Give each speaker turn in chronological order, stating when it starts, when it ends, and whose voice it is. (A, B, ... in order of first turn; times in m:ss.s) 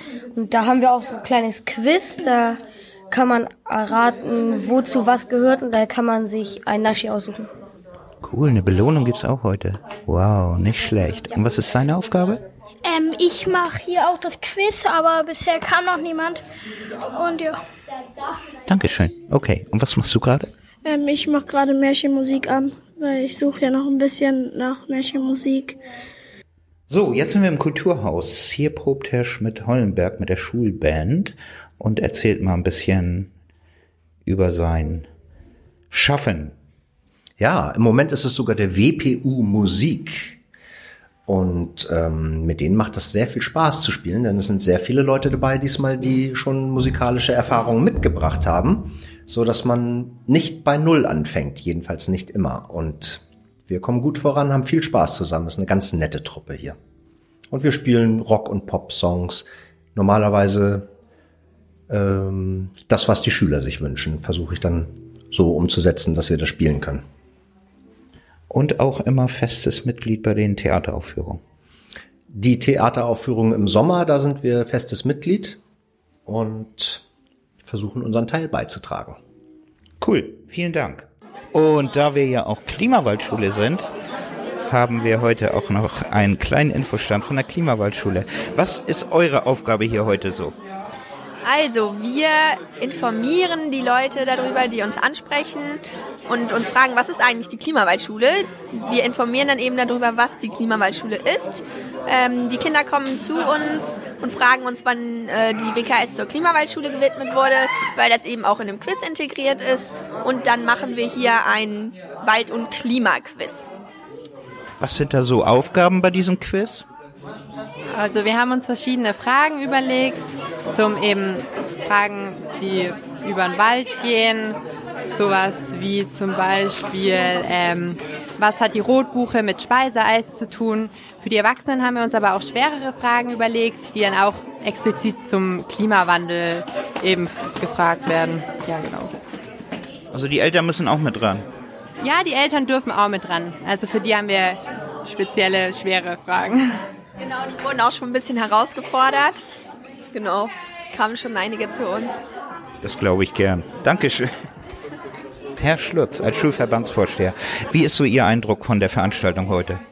0:00.3-0:07.5 A
0:08.2-0:12.4 B
0:12.8-0:16.4 C
0:17.1-0:17.6 C
0:18.6-0:20.5 B
0:20.8-0:25.8 C
0:26.9-0:33.3 B
0:34.2-0:35.1 B
0:35.9-0:36.6 B
0:37.4-0:40.4 D
0:41.3-0:56.8 D
0:57.5-1:00.9 D
1:01.9-1:07.0 D
1:08.5-1:11.4 B
1:12.3-1:15.6 D
1:16.2-1:17.0 D
1:17.6-1:19.2 D
1:20.0-1:23.9 B
1:24.6-1:30.6 B
1:31.4-1:53.7 E
1:54.8-1:56.9 B
1:57.9-2:04.6 F
2:05.1-2:19.1 F
2:20.1-2:21.5 B
2:22.0-2:26.8 F
2:27.2-2:29.4 E
2:30.1-2:32.2 E
2:32.8-2:34.4 B
2:35.6-2:39.8 B